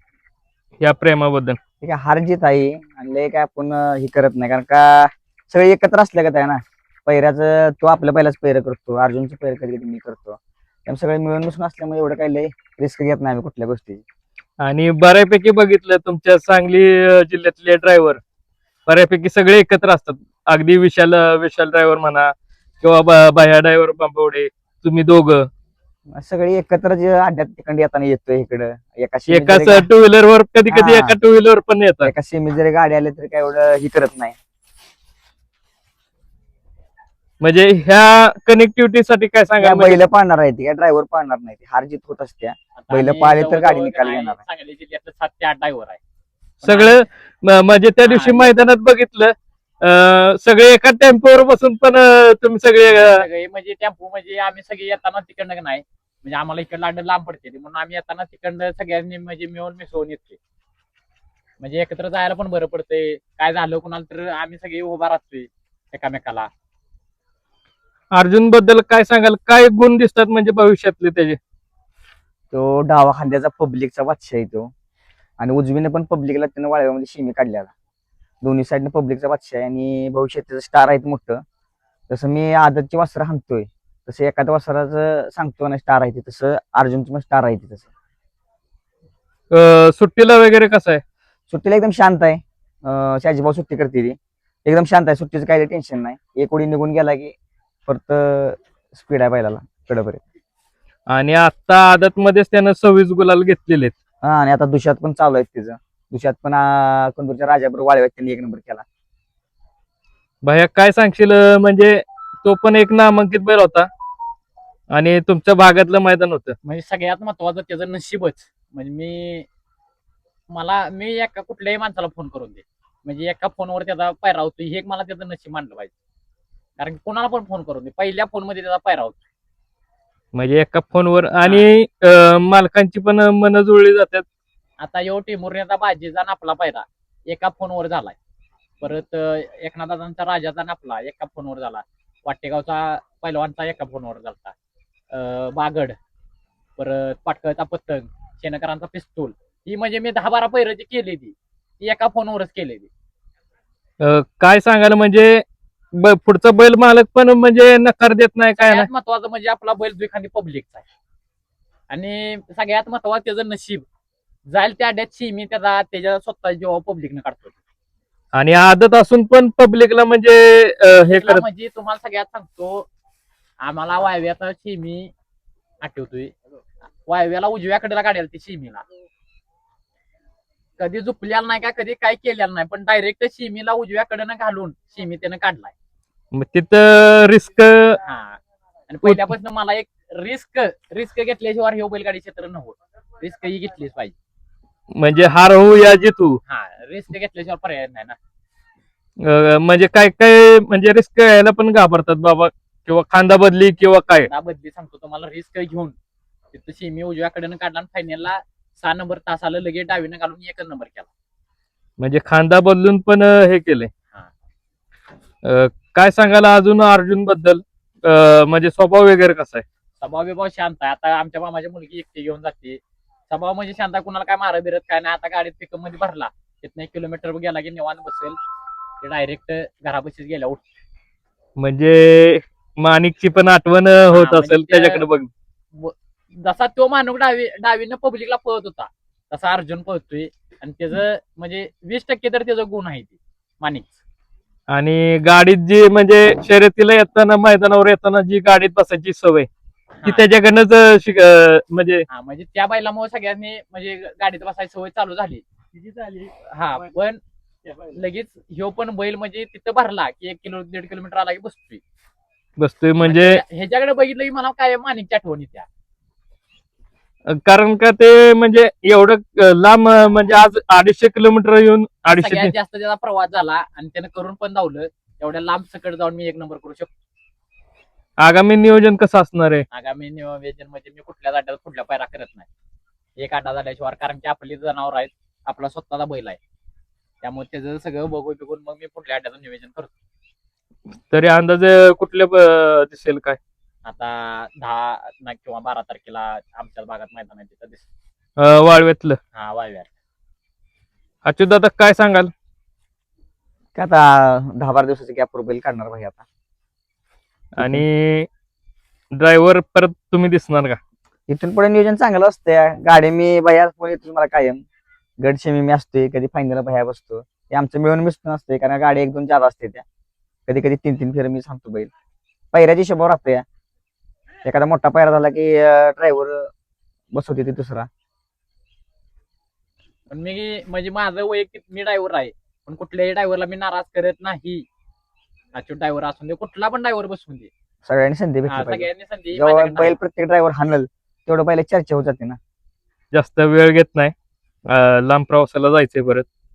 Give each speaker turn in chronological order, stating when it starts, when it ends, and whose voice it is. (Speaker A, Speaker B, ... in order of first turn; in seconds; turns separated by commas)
Speaker A: 0.8-1.6, Speaker B: 1.8-14.0, Speaker A: 14.6-18.2, Speaker A: 18.9-25.5, Speaker B: 26.1-29.9, Speaker A: 29.3-32.1, Speaker B: 30.7-31.2, Speaker B: 32.0-34.4, Speaker A: 37.4-40.0, Speaker B: 39.6-44.4, Speaker C: 42.8-46.0, Speaker C: 46.6-47.0, Speaker A: 46.6-53.2, Speaker C: 48.0-48.5, Speaker C: 52.9-60.4, Speaker C: 61.6-66.5, Speaker A: 68.1-71.4, Speaker B: 72.5-74.7, Speaker B: 75.4-77.7, Speaker B: 78.4-81.4, Speaker B: 82.1-87.9, Speaker A: 89.5-91.0, Speaker B: 91.5-97.3, Speaker B: 97.9-100.2, Speaker A: 101.1-103.9, Speaker B: 104.2-108.8, Speaker A: 110.4-113.9, Speaker A: 114.9-116.5, Speaker C: 116.6-119.5, Speaker C: 120.5-125.9, Speaker C: 126.8-129.2, Speaker A: 130.3-134.2, Speaker C: 131.4-131.7, Speaker C: 134.8-138.2, Speaker C: 138.8-144.5, Speaker C: 145.1-145.9, Speaker C: 146.8-152.9, Speaker A: 154.0-155.4, Speaker A: 155.9-158.9, Speaker C: 158.6-160.8, Speaker C: 161.9-163.8, Speaker C: 164.5-167.6, Speaker A: 168.3-171.4, Speaker C: 171.1-172.9, Speaker C: 173.6-175.1, Speaker C: 175.8-176.3, Speaker C: 177.1-178.8, Speaker C: 180.8-185.7, Speaker A: 186.3-188.0, Speaker C: 188.0-194.1, Speaker A: 194.9-196.4, Speaker C: 196.4-198.2, Speaker A: 199.2-204.3, Speaker C: 204.2-205.9, Speaker C: 206.5-211.1, Speaker A: 212.0-213.9, Speaker A: 215.4-219.6, Speaker C: 220.0-228.4, Speaker C: 229.0-230.6, Speaker A: 231.6-235.3, Speaker C: 234.1-235.0, Speaker C: 235.7-244.0, Speaker A: 244.7-249.5, Speaker C: 250.0-250.2, Speaker A: 250.1-252.0, Speaker C: 252.1-255.4, Speaker C: 256.4-257.2, Speaker C: 257.8-261.8, Speaker A: 262.6-263.4, Speaker C: 263.0-265.7, Speaker A: 267.3-272.5, Speaker C: 272.0-276.9, Speaker A: 278.2-279.6, Speaker C: 279.7-282.5, Speaker C: 283.2-286.4, Speaker C: 287.2-289.9, Speaker A: 291.1-293.4, Speaker C: 293.8-297.8, Speaker A: 298.4-299.2, Speaker C: 299.3-299.9, Speaker A: 301.2-302.3, Speaker B: 303.7-306.2, Speaker A: 307.6-308.3, Speaker B: 307.6-307.8, Speaker A: 309.1-310.8, Speaker B: 311.3-314.6, Speaker B: 315.2-319.8, Speaker B: 320.5-321.9, Speaker B: 322.5-323.4, Speaker B: 324.4-326.5, Speaker B: 327.1-327.9, Speaker C: 330.1-334.6, Speaker C: 335.5-337.5, Speaker B: 337.8-342.4, Speaker C: 338.5-340.0, Speaker A: 343.1-344.1, Speaker A: 344.7-346.2